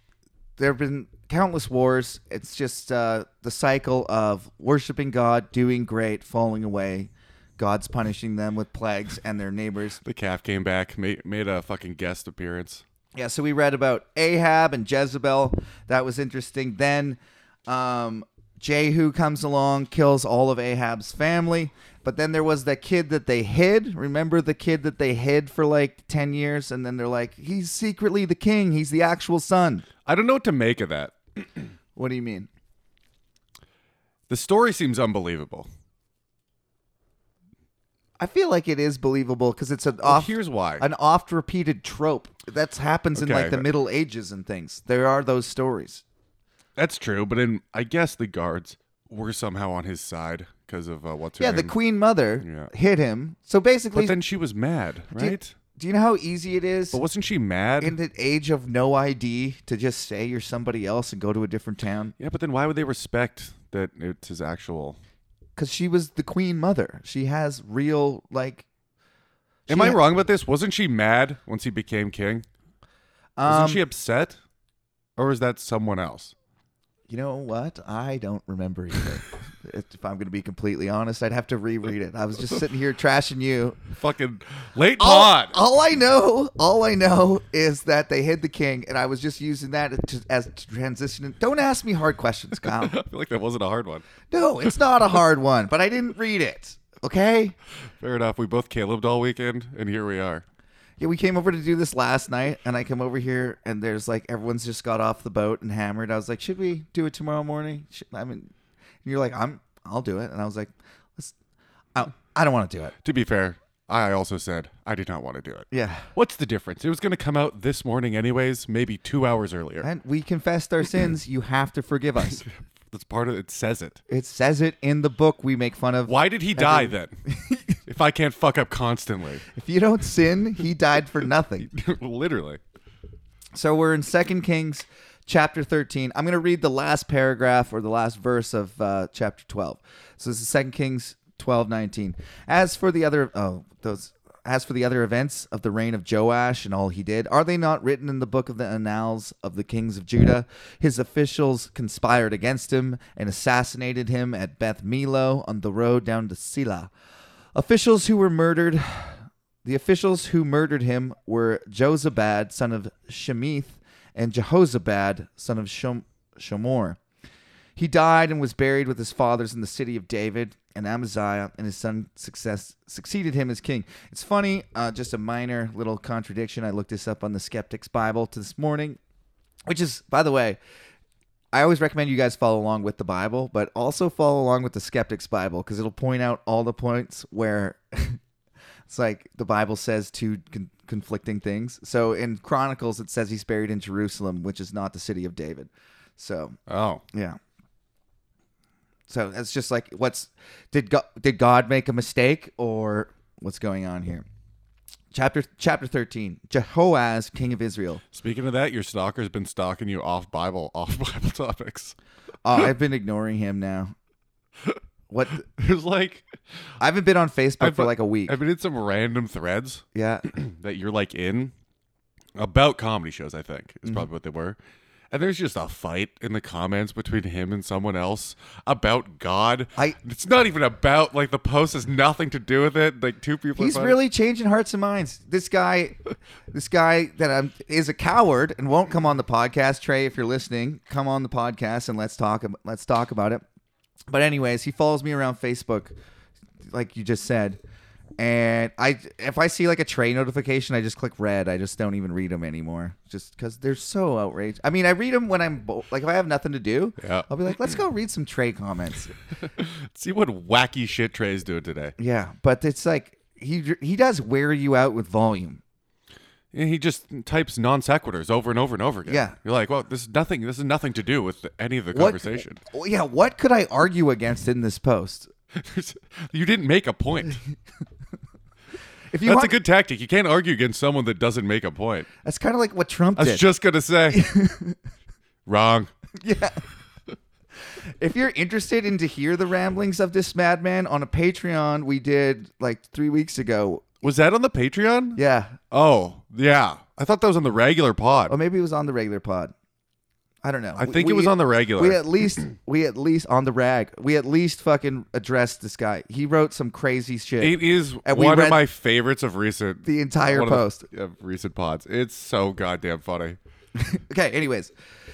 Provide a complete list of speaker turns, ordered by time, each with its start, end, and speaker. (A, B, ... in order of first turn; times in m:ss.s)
0:00.6-0:10.0 A
0:10.0-0:12.8 B
0:13.2-0:29.9 A
0:30.0-0:31.5 B
0:32.0-0:32.5 A
0:34.3-0:35.7 B
0:38.2-0:46.0 A
0:40.0-0:40.8 B
0:43.2-0:43.7 B
0:46.8-0:51.8 B
0:51.4-0:54.2 A
0:52.4-0:52.7 B
0:53.9-0:55.6 B
0:55.2-0:57.0 A
0:56.9-0:58.0 B
0:57.8-1:02.1 A
1:02.2-1:05.0 B
1:05.6-1:08.6 A
1:09.7-1:10.0 A
1:09.7-1:12.5 B
1:13.4-1:13.8 A
1:13.5-1:14.4 B
1:15.2-1:16.3 B
1:17.1-1:23.8 A
1:23.9-1:25.6 B
1:25.0-1:33.0 A
1:32.6-1:34.0 B
1:34.3-1:37.6 A
1:38.0-1:40.4 B
1:41.0-1:48.5 A
1:49.0-1:51.3 A
1:52.0-1:52.9 A
1:53.0-1:59.9 B
1:55.7-1:56.1 A
1:59.8-2:02.4 A
2:02.4-2:04.0 B
2:04.1-2:07.8 A
2:06.1-2:07.2 B
2:07.9-2:09.4 B
2:09.6-2:11.7 A
2:11.6-2:12.6 B
2:13.6-2:36.9 A
2:37.6-2:47.0 A
2:47.8-2:59.0 A
2:59.7-3:00.6 A
3:01.5-3:08.2 A
3:08.9-3:16.6 A
3:16.7-3:17.0 B
3:17.1-3:17.4 A
3:19.1-3:24.3 A
3:25.1-3:28.0 A
3:28.1-3:32.0 B
3:32.4-3:33.9 A
3:35.1-3:35.4 A
3:35.4-3:36.3 B
3:36.8-3:38.4 A
3:37.6-3:41.5 B
3:39.9-3:40.3 A
3:42.4-3:44.6 B
3:45.1-3:54.0 B
3:53.6-3:56.0 A
3:56.5-4:03.4 A
4:04.1-4:05.9 A
4:06.7-4:07.6 A
4:08.2-4:19.1 A
4:17.0-4:17.3 B
4:19.6-4:21.9 B
4:22.0-4:25.6 A
4:26.5-4:32.6 B
4:29.1-4:29.4 A
4:31.9-4:35.3 A
4:35.5-4:37.4 B
4:39.1-4:39.6 A
4:39.2-4:42.1 B
4:42.2-4:43.4 A
4:43.2-4:44.2 B
4:44.1-4:44.8 A
4:45.5-4:45.9 B
4:46.2-4:46.6 A
4:48.0-4:54.0 A
4:54.0-4:58.3 B
4:55.2-4:55.6 A
4:58.3-4:59.5 A
5:00.4-5:08.6 A
5:00.8-5:02.0 B
5:07.4-5:13.4 B
5:09.8-5:10.8 A
5:13.8-5:14.7 A